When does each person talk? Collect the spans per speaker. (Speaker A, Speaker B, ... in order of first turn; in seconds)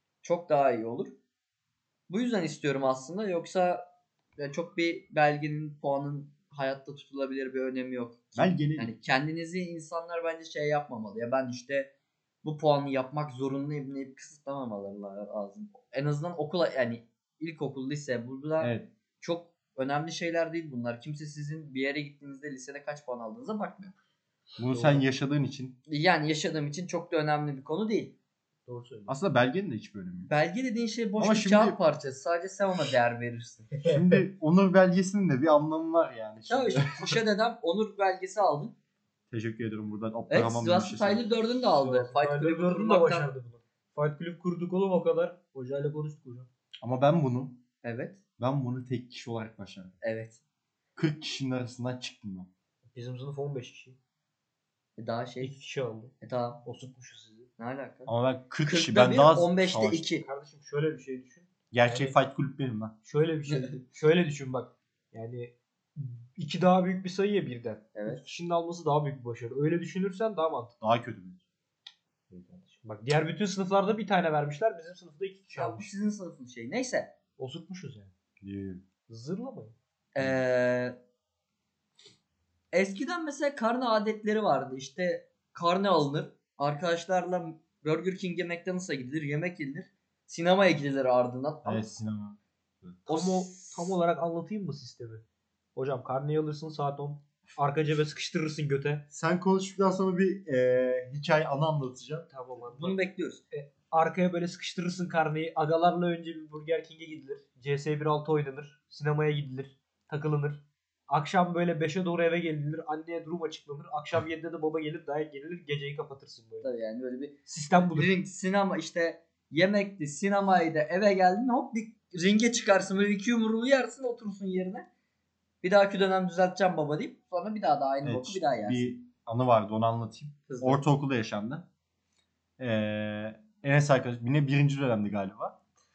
Speaker A: 0.2-1.1, 2.1-3.8, 4.4-11.9, 12.4-23.9, 25.9-28.1, 30.3-33.9, 36.5-38.8, 40.3-43.3, 47.8-48.2, 50.0-50.4, 55.0-55.6, 56.2-56.6, 57.6-60.2, 63.5-63.8, 68.0-68.2, 75.5-77.2, 80.2-81.0, 82.7-91.9, 93.1-94.0, 102.6-103.4, 116.6-117.4, 117.9-124.9, 125.6-128.9, 130.5-130.8
Speaker B: 8.4-8.9, 18.6-18.9, 24.6-25.8, 29.1-30.3, 31.2-31.8, 33.9-37.2, 39.3-41.2, 46.8-47.6, 48.4-49.9, 51.0-52.5, 58.1-60.1, 61.7-62.9, 70.8-71.4, 78.4-78.9, 91.7-93.1, 99.1-102.3, 128.0-131.7, 132.6-135.6
Speaker C: 24.7-25.1, 28.7-29.1, 33.7-34.2, 41.7-46.5, 52.9-54.0, 55.4-57.5, 60.2-62.2, 63.0-70.8, 72.3-75.9, 77.4-78.1, 79.1-79.7, 93.1-95.2, 95.8-99.0, 102.3-116.7, 117.5-118.2